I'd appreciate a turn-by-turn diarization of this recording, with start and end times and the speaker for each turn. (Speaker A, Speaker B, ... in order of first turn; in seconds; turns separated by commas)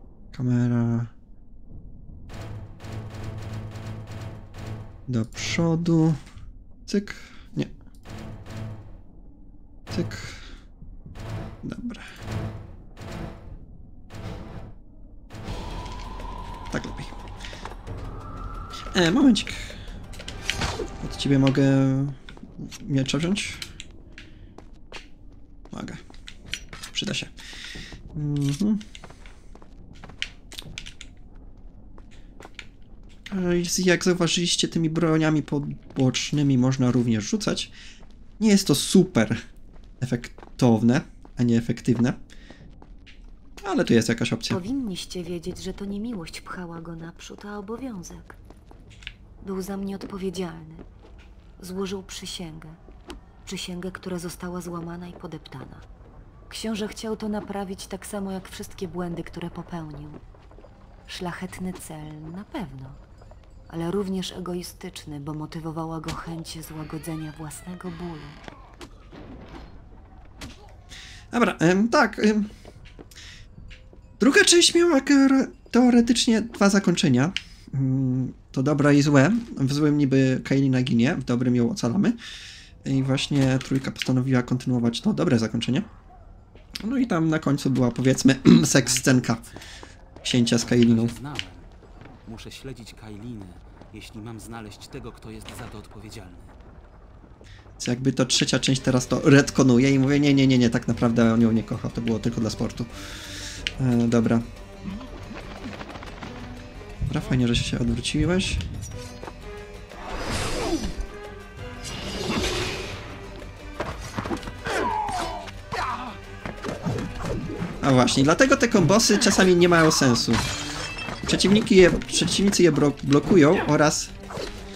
Speaker A: 0.3-1.1, Speaker A: 5.1-6.2, Speaker A: 6.9-7.7, Speaker A: 9.9-10.4, Speaker A: 11.6-12.1, Speaker A: 16.7-17.1, Speaker A: 18.9-19.8, Speaker A: 21.0-23.6, Speaker A: 25.7-26.0, Speaker A: 26.9-27.3, Speaker A: 28.1-28.8, Speaker A: 33.3-37.7, Speaker A: 38.4-39.4, Speaker A: 40.0-42.2, Speaker A: 43.6-44.6, Speaker B: 44.5-48.4, Speaker B: 49.4-50.8, Speaker B: 51.6-52.8, Speaker B: 53.4-55.8, Speaker B: 56.5-60.2, Speaker B: 61.1-63.0, Speaker B: 63.7-68.4, Speaker A: 71.3-72.5, Speaker A: 74.2-82.2, Speaker A: 82.8-85.9, Speaker A: 86.8-89.4, Speaker C: 88.7-89.6, Speaker A: 90.2-91.1, Speaker C: 90.6-91.7, Speaker C: 92.2-96.6, Speaker A: 97.8-102.9, Speaker A: 103.8-104.4, Speaker A: 107.1-108.6, Speaker A: 117.8-120.4, Speaker A: 121.2-124.1